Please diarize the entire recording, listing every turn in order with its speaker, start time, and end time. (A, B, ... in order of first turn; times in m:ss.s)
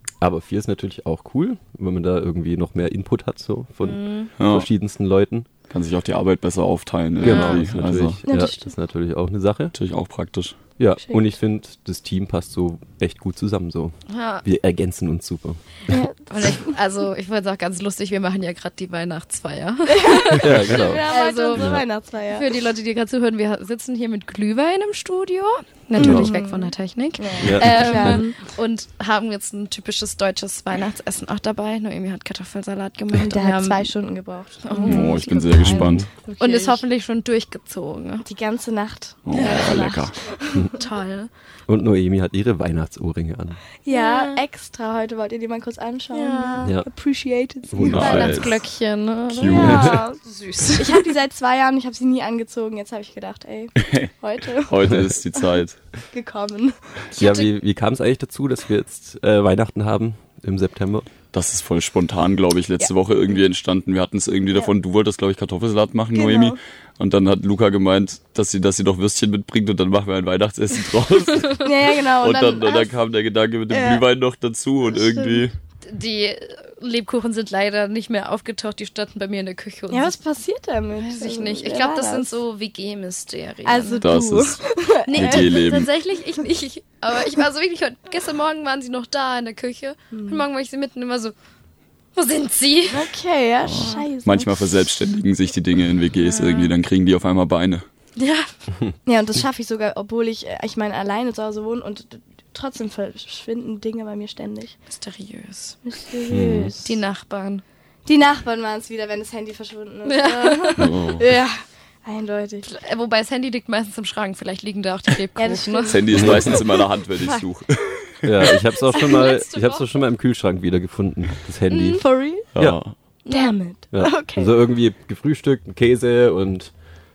0:00.2-0:05.5 A
0:03.8-0:04.3 B
0:04.4-0:04.7 C
0:05.7-0:08.2 C
0:07.2-0:09.8 A
0:07.2-0:07.6 B
0:08.3-0:08.7 D
0:09.8-0:10.6 C
0:10.8-0:16.0 A
0:14.1-0:14.4 B
0:15.9-0:16.7 D
0:16.3-0:21.7 B
0:19.9-0:22.5 D
0:20.4-0:21.8 A
0:22.3-0:33.9 B
0:26.0-0:26.3 A
0:26.0-0:28.4 D
0:27.4-0:28.2 A
0:33.2-0:36.8 D
0:34.6-0:35.3 B
0:34.8-0:36.1 C
0:35.6-0:36.1 A
0:36.4-0:38.3 B
0:38.2-0:40.8 D
0:39.2-0:40.2 C
0:39.3-0:39.9 B
0:40.7-0:41.3 B
0:41.7-0:43.6 A
0:43.8-0:48.4 D
0:43.9-0:44.4 B
0:46.1-0:46.7 B
0:46.6-0:46.9 A
0:47.7-0:48.6 A
0:47.8-0:48.4 C
0:48.0-0:51.1 B
0:49.4-0:50.0 C
0:49.5-0:50.2 D
0:49.5-0:50.0 A
0:50.8-0:55.4 D
0:53.8-0:55.8 C
0:56.1-0:57.0 D
0:57.2-0:57.5 B
0:57.2-1:01.1 A
1:01.3-1:15.6 C
1:06.2-1:06.6 D
1:11.6-1:12.9 D
1:13.7-1:14.0 D
1:15.0-1:15.5 D
1:15.8-1:20.2 B
1:19.9-1:22.4 D
1:21.1-1:24.1 B
1:23.6-1:25.5 D
1:24.0-1:25.9 C
1:25.0-1:31.3 B
1:30.1-1:30.4 D
1:32.2-1:33.1 B
1:32.9-1:34.6 D
1:33.6-1:37.8 C
1:33.8-1:34.0 B
1:36.2-1:36.7 B
1:38.2-1:38.5 B
1:39.1-1:44.8 D
1:44.9-1:45.8 B
1:45.8-1:46.9 D
1:46.3-1:46.8 A
1:46.8-1:47.6 B
1:48.0-1:52.7 D
1:50.0-1:50.9 B
1:50.8-1:51.3 C
1:52.6-1:56.0 B
1:55.4-1:57.8 D
1:55.9-1:58.2 C
1:56.1-1:56.6 A
1:58.2-2:02.8 A
1:58.9-1:59.9 B
2:01.7-2:02.0 B
2:01.9-2:02.5 D
2:02.6-2:03.0 C
2:03.3-2:03.5 B
2:03.3-2:04.5 D
2:03.9-2:06.7 A